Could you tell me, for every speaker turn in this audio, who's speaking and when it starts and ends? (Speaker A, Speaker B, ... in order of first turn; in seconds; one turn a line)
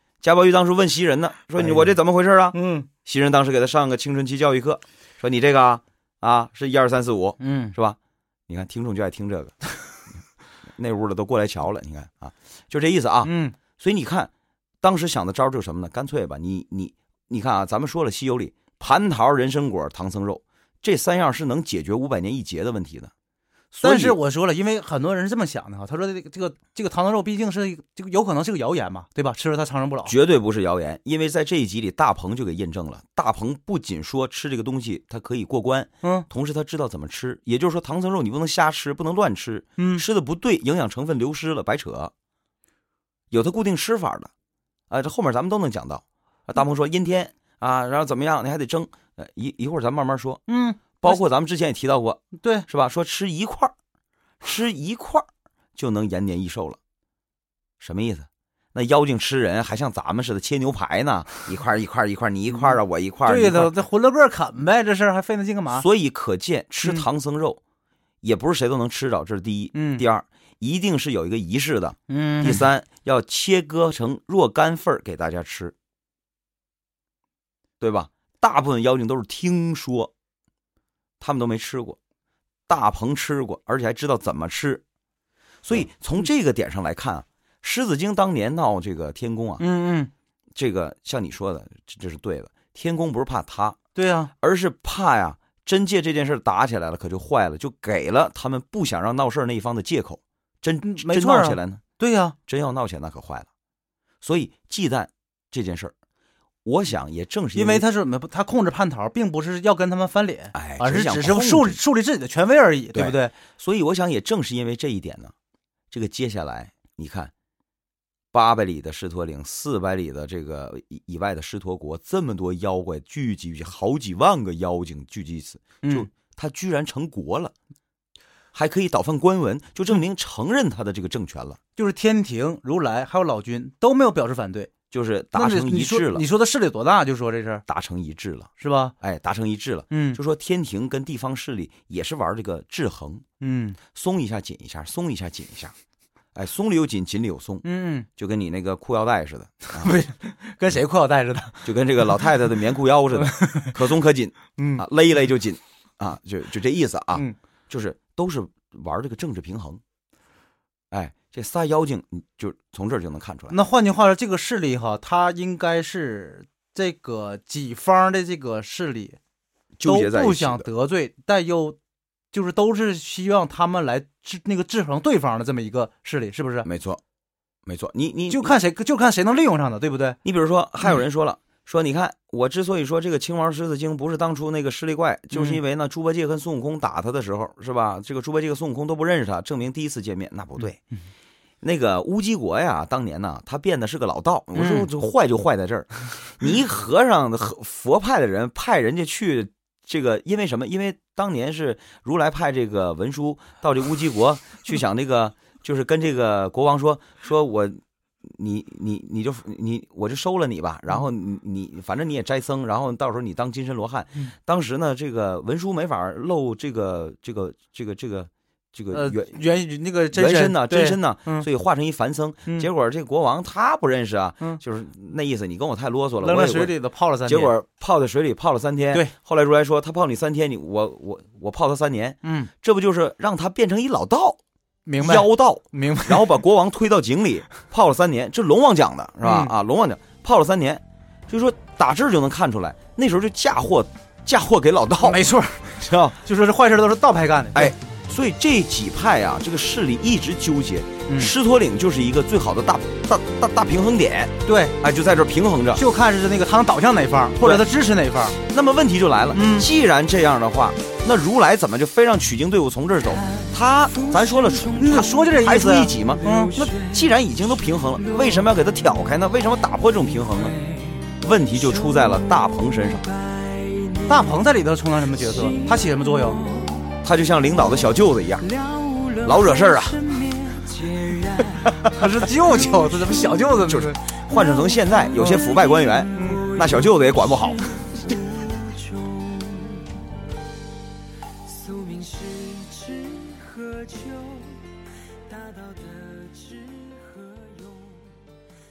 Speaker A: 0.2-8.0
Speaker B: 1.6-1.9
Speaker B: 2.5-2.9
Speaker B: 7.4-7.7
Speaker A: 8.5-9.6
Speaker A: 10.8-14.3
Speaker B: 13.2-13.6
Speaker A: 14.8-23.1
Speaker A: 23.7-24.2
Speaker B: 23.8-30.1
Speaker A: 30.0-42.1
Speaker B: 39.8-40.0
Speaker A: 43.3-44.3
Speaker A: 44.9-50.4
Speaker B: 50.5-51.2
Speaker A: 51.0-53.7
Speaker B: 52.4-52.6
Speaker A: 54.4-56.8
Speaker A: 57.8-63.7
Speaker B: 63.2-65.8
Speaker A: 65.7-67.6
Speaker A: 68.2-75.7
Speaker B: 69.7-70.0
Speaker B: 72.1-72.7
Speaker A: 77.8-80.1
Speaker A: 81.2-82.0
Speaker A: 82.7-84.8
Speaker A: 85.6-89.6
Speaker B: 89.6-90.1
Speaker A: 90.5-93.8
Speaker B: 93.9-94.3
Speaker A: 94.4-101.8
Speaker B: 100.8-102.3
Speaker A: 102.5-103.5
Speaker A: 104.2-105.9
Speaker A: 106.6-107.8
Speaker B: 107.5-113.3
Speaker A: 110.5-111.8
Speaker A: 112.9-115.3
Speaker A: 115.9-117.3
Speaker A: 118.3-127.5
Speaker A: 128.5-131.6
Speaker B: 131.8-134.7
Speaker A: 134.9-136.2
Speaker B: 135.3-137.6
Speaker A: 137.7-138.5
Speaker B: 138.6-138.9
Speaker A: 139.0-143.2
Speaker B: 139.9-140.2
Speaker B: 143.4-143.8
Speaker A: 143.9-145.7
Speaker A: 146.3-147.6
Speaker B: 147.6-148.1
Speaker A: 148.2-149.9
Speaker B: 149.7-151.7
Speaker A: 151.6-159.8
Speaker B: 153.1-153.8
Speaker B: 154.6-154.8
Speaker A: 160.9-163.6
Speaker B: 163.5-169.2
Speaker A: 169.8-170.7
Speaker B: 169.8-171.8
Speaker B: 172.3-176.7
Speaker A: 176.6-177.0
Speaker A: 177.7-178.6
Speaker B: 178.3-180.2
Speaker A: 180.2-190.8
Speaker B: 185.3-185.6
Speaker A: 191.6-219.4
Speaker B: 194.5-194.9
Speaker B: 218.9-221.4
Speaker A: 220.1-234.4
Speaker B: 226.2-227.5
Speaker B: 232.2-232.5
Speaker B: 234.8-236.4
Speaker A: 235.0-245.2
Speaker B: 239.2-239.5
Speaker B: 245.0-247.7
Speaker A: 245.8-246.2
Speaker A: 247.5-255.8
Speaker B: 251.1-251.3
Speaker B: 254.4-254.8
Speaker B: 255.7-258.4
Speaker A: 257.4-257.6
Speaker A: 258.4-270.6
Speaker B: 259.3-259.7
Speaker B: 264.6-266.6
Speaker A: 271.1-273.1
Speaker C: 273.3-274.1
Speaker B: 274.0-276.4
Speaker C: 276.5-276.9
Speaker A: 277.0-278.5
Speaker C: 278.6-281.6
Speaker A: 279.2-280.4
Speaker A: 281.5-281.9
Speaker B: 281.8-284.0
Speaker A: 283.6-288.3
Speaker B: 285.1-285.5
Speaker B: 286.1-286.5
Speaker C: 287.7-289.9
Speaker C: 291.5-294.6
Speaker C: 295.3-298.2